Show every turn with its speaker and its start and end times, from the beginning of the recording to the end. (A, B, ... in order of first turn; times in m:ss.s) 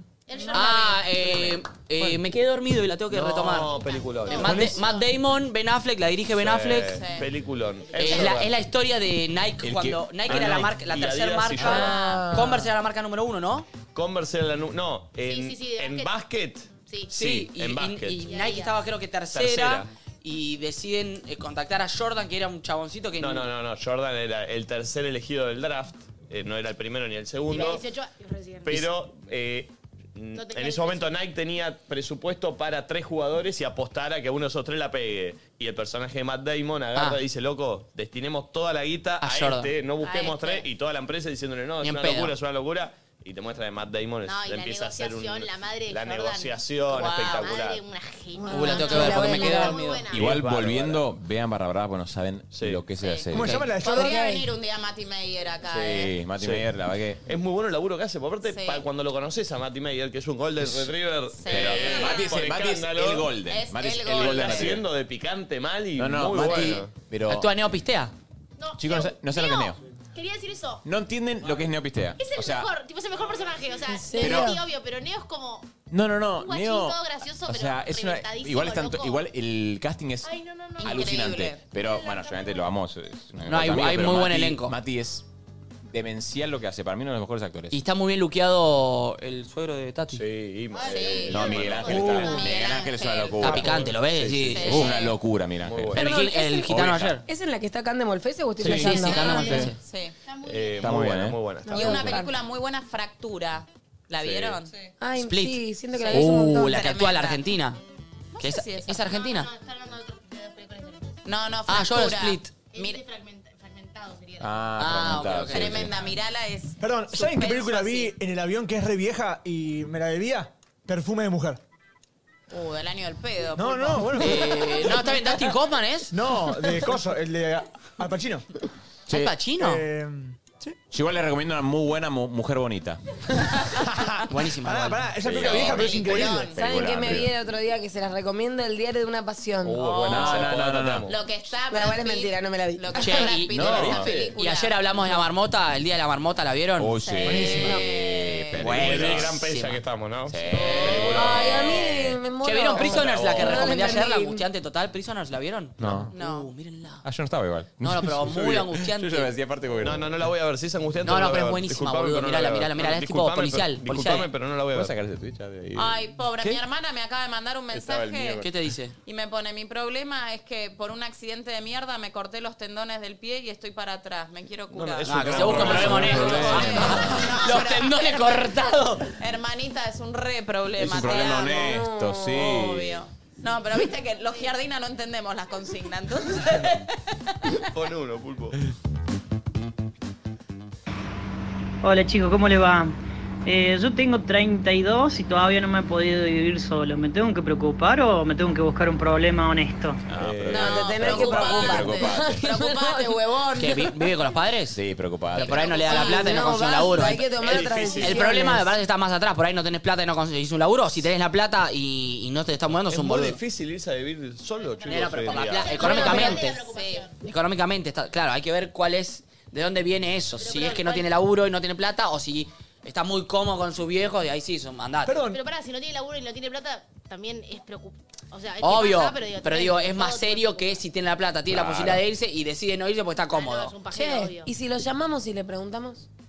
0:00.3-0:01.4 A
0:00.5-0:03.7 B
0:03.1-0:04.8 C
0:03.6-0:05.1 A
0:04.3-0:07.0 B
0:06.3-0:08.5 C
0:06.9-0:07.3 D
0:07.8-0:08.4 A
0:07.9-0:13.7 B
0:09.6-0:10.7 E
0:10.8-0:12.1 C
0:11.6-0:12.6 F
0:13.9-0:18.2 C
0:15.2-0:16.1 A
0:16.8-0:17.1 A
0:17.1-0:23.5 B
0:18.2-0:18.8 A
0:19.3-0:19.9 C
0:23.2-0:27.8 C
0:27.5-0:28.8 A
0:28.6-0:47.8 C
0:30.3-0:31.2 A
0:39.2-0:39.7 B
0:40.0-0:40.4 D
0:40.3-0:40.6 A
0:41.8-0:42.3 B
0:44.2-0:50.3 A
0:46.9-0:47.5 D
0:48.4-0:49.8 F
0:48.5-0:50.0 B
0:50.1-0:53.7 E
0:50.1-0:51.0 C
0:52.5-0:52.8 C
0:53.0-0:56.1 D
0:53.3-0:54.3 G
0:53.4-0:53.7 B
0:53.8-0:54.5 F
0:55.7-0:56.6 C
0:55.8-0:57.2 E
0:57.2-1:03.3 C
0:58.5-0:58.8 D
1:01.4-1:02.3 D
1:01.5-1:04.8 E
1:03.5-1:04.8 D
1:04.1-1:06.9 C
1:06.0-1:07.5 E
1:06.4-1:08.1 B
1:08.6-1:10.8 A
1:08.8-1:09.8 E
1:10.8-1:12.7 E
1:12.2-1:15.7 A
1:13.9-1:14.6 F
1:15.9-1:25.2 E
1:16.3-1:19.3 A
1:20.2-1:22.7 A
1:20.8-1:21.6 D
1:23.5-1:24.8 B
1:25.9-1:27.8 E
1:27.7-1:30.2 B
1:30.1-1:32.3 C
1:30.7-1:33.0 A
1:30.8-1:31.6 D
1:31.3-1:36.1 E
1:32.2-1:33.6 D
1:33.4-1:34.9 B
1:34.6-1:35.2 D
1:35.6-1:36.0 C
1:35.9-1:37.2 B
1:36.0-1:36.7 F
1:36.6-1:37.2 E
1:37.2-1:39.6 F
1:38.6-1:39.7 E
1:38.6-1:39.8 B
1:38.9-1:40.1 D
1:39.0-1:39.7 A
1:40.2-1:41.0 A
1:40.4-1:42.2 C
1:40.8-1:41.4 E
1:41.7-1:42.3 F
1:41.7-1:44.7 D
1:44.2-1:44.6 C
1:45.0-1:46.8 F
1:45.2-1:47.8 B
1:45.9-1:47.4 D
1:48.3-1:49.0 D
1:48.4-1:49.5 B
1:49.0-1:51.2 A
1:51.2-1:53.0 D
1:51.7-1:52.5 B
1:52.7-1:54.8 A
1:54.4-1:56.0 E
1:54.8-1:55.9 B
1:55.4-1:56.2 A
1:55.5-1:58.1 D
1:56.8-2:01.6 G
2:02.5-2:04.2 D
2:03.6-2:05.4 G
2:04.2-2:06.2 B
2:06.1-2:08.5 G
2:09.1-2:09.4 E
2:09.1-2:09.8 B
2:09.6-2:10.8 G
2:10.9-2:13.0 E
2:13.8-2:16.5 G
2:14.3-2:15.1 B
2:15.2-2:17.3 E
2:15.4-2:16.5 D
2:16.2-2:19.9 F
2:19.6-2:21.2 C
2:19.8-2:20.5 D
2:20.1-2:21.1 E
2:21.1-2:24.8 D
2:21.7-2:23.3 F
2:23.0-2:26.9 B
2:23.5-2:24.1 E
2:23.5-2:24.3 C
2:26.8-2:29.4 E
2:27.0-2:28.6 D
2:27.2-2:27.4 A
2:27.2-2:27.8 G
2:28.6-2:31.8 C
2:28.6-2:29.8 B
2:30.3-2:31.4 E
2:30.5-2:31.1 D
2:31.1-2:34.4 F
2:32.4-2:37.0 B
2:32.7-2:33.9 C
2:35.8-2:36.1 E
2:36.1-2:36.5 D
2:37.0-2:40.2 E
2:37.8-2:39.3 B
2:39.8-2:44.9 C
2:41.0-2:44.3 B
2:44.7-2:46.6 E
2:45.8-2:48.4 D
2:47.7-2:48.4 C
2:48.4-2:48.9 B
2:49.0-3:07.6 D
2:54.7-2:57.0 C
2:55.0-2:59.1 B
2:55.3-2:57.4 E
3:00.8-3:03.0 E
3:01.2-3:02.7 F
3:07.7-3:08.6 C
3:11.8-3:20.0 H
3:20.1-3:22.5 E
3:20.1-3:21.3 C
3:20.5-3:23.8 F
3:20.5-3:23.6 D
3:23.6-3:24.8 B
3:24.7-3:25.9 E
3:25.3-3:33.4 B
3:25.6-3:26.2 D
3:25.9-3:28.7 F
3:27.4-3:28.3 C
3:32.9-3:36.2 C
3:34.6-3:37.2 A
3:34.9-3:36.6 B
3:35.8-3:37.1 D
3:37.2-3:45.2 B
3:40.4-3:41.1 A
3:45.0-3:45.4 G
3:45.2-3:50.8 A
3:48.6-3:53.7 B
3:51.5-3:52.0 E
3:53.3-3:54.5 A
3:53.9-3:56.1 F